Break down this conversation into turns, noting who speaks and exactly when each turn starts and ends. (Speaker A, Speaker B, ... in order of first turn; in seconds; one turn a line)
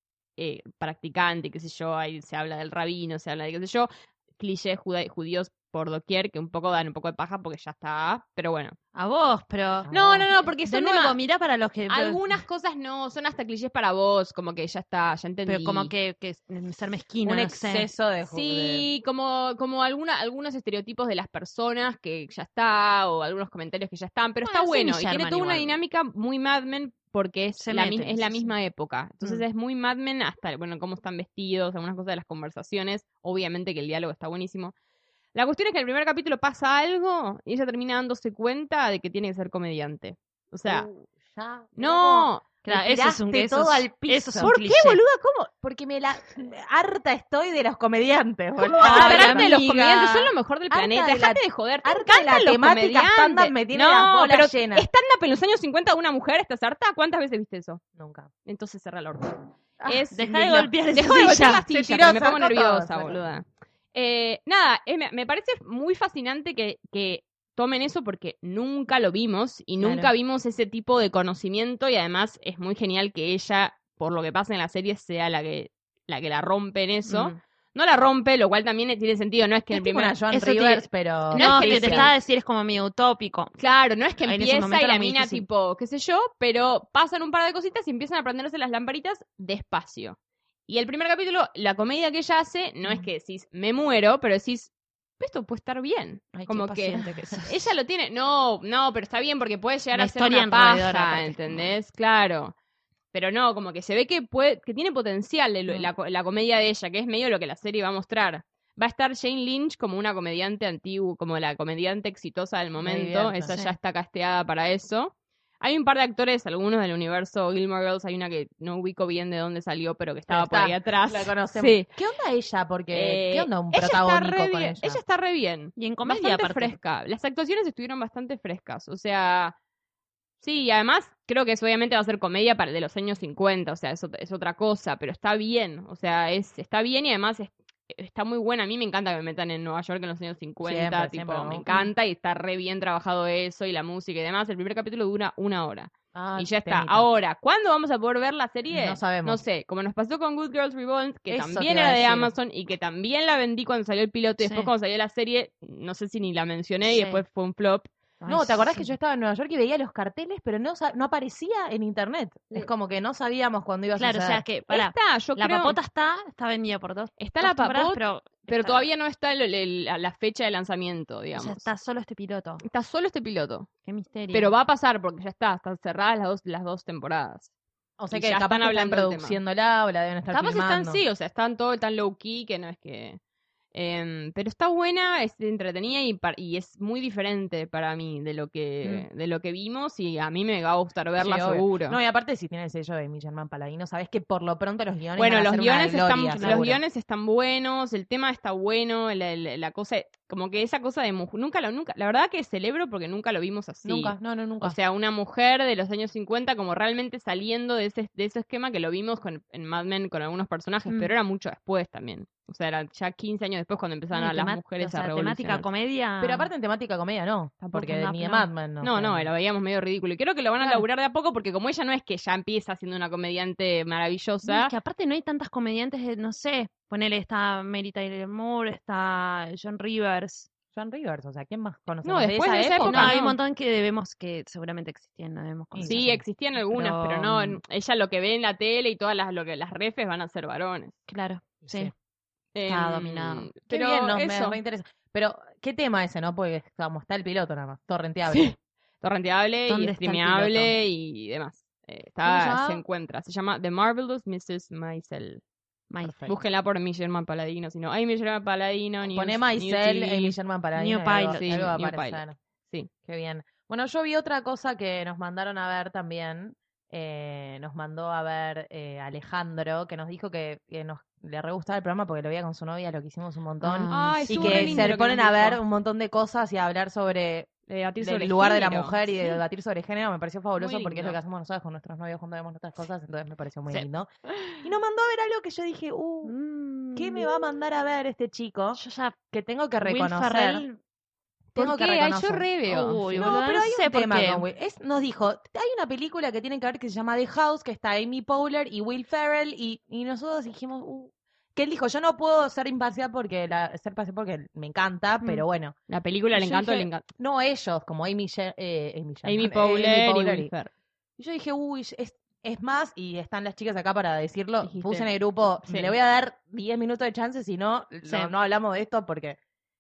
Speaker A: 0.4-8.8
Speaker B: 8.9-9.9
Speaker C: 9.8-10.3
Speaker A: 9.9-11.2
Speaker B: 10.6-12.4
Speaker A: 11.9-15.9
Speaker B: 15.4-17.9
Speaker C: 17.2-18.8
Speaker A: 18.2-34.7
Speaker B: 24.4-25.7
Speaker B: 27.6-28.5
Speaker A: 35.3-40.9
Speaker C: 40.6-44.5
Speaker A: 41.8-42.5
Speaker B: 42.6-45.0
Speaker A: 44.4-45.4
Speaker C: 45.5-50.1
Speaker A: 48.7-57.8
Speaker B: 48.7-50.3
Speaker C: 50.7-54.9
Speaker C: 58.0-58.3
Speaker A: 58.4-82.1
Speaker B: 60.1-61.6
Speaker C: 61.6-63.2
Speaker B: 69.8-70.1
Speaker B: 77.1-77.4
Speaker C: 79.7-82.1
Speaker B: 81.3-83.5
Speaker A: 83.6-102.5
Speaker B: 84.2-85.5
Speaker C: 96.4-97.4
Speaker B: 96.4-97.5
Speaker B: 99.9-101.7
Speaker A: 103.1-121.9
Speaker C: 112.8-113.5
Speaker B: 113.5-113.7
Speaker C: 120.3-125.0
Speaker A: 122.9-129.6
Speaker B: 125.8-126.8
Speaker A: 130.4-157.9
Speaker C: 140.6-141.7
Speaker C: 146.1-147.1
Speaker C: 148.7-149.4
Speaker C: 151.3-152.3
Speaker B: 154.4-154.7
Speaker B: 156.8-157.2
Speaker B: 158.2-158.9
Speaker C: 158.3-164.4
Speaker B: 163.9-168.9
Speaker A: 164.7-165.8
Speaker A: 167.2-171.7
Speaker B: 171.3-172.6
Speaker A: 172.6-173.7
Speaker B: 173.8-174.5
Speaker A: 174.3-177.5
Speaker C: 178.0-181.0
Speaker A: 178.1-179.4
Speaker A: 180.3-183.2
Speaker A: 183.7-192.0
Speaker C: 191.2-196.8
Speaker A: 195.2-215.7
Speaker B: 196.4-196.7
Speaker C: 203.8-204.8
Speaker B: 214.1-216.5
Speaker C: 216.2-219.3
Speaker B: 217.7-218.5
Speaker A: 218.8-224.7
Speaker B: 224.4-230.4
Speaker C: 230.7-233.2
Speaker A: 232.0-233.4
Speaker B: 232.8-237.6
Speaker C: 235.7-236.2
Speaker A: 235.8-241.0
Speaker B: 241.1-241.9
Speaker C: 241.6-241.9
Speaker A: 242.5-244.6
Speaker B: 242.7-243.5
Speaker C: 243.7-248.5
Speaker A: 248.3-255.4
Speaker B: 249.7-250.8
Speaker C: 252.2-252.8
Speaker B: 252.4-252.7
Speaker B: 255.9-256.4
Speaker A: 256.2-260.3
Speaker C: 259.1-262.4
Speaker B: 260.8-261.7
Speaker A: 261.4-262.9
Speaker C: 263.0-277.5
Speaker B: 273.6-274.9
Speaker A: 273.9-275.6
Speaker A: 277.7-279.0
Speaker C: 278.0-284.1
Speaker A: 280.6-281.2
Speaker C: 284.6-286.3
Speaker B: 286.2-287.3
Speaker C: 286.9-288.8
Speaker B: 288.8-289.1
Speaker C: 289.3-290.6
Speaker B: 289.8-290.8
Speaker C: 291.5-292.5
Speaker A: 291.6-293.4
Speaker B: 292.7-294.4
Speaker C: 293.2-305.8
Speaker A: 305.9-307.0
Speaker C: 306.3-310.5
Speaker A: 309.2-310.7
Speaker C: 311.2-319.4
Speaker A: 314.6-315.1
Speaker A: 315.6-315.9
Speaker B: 318.0-318.3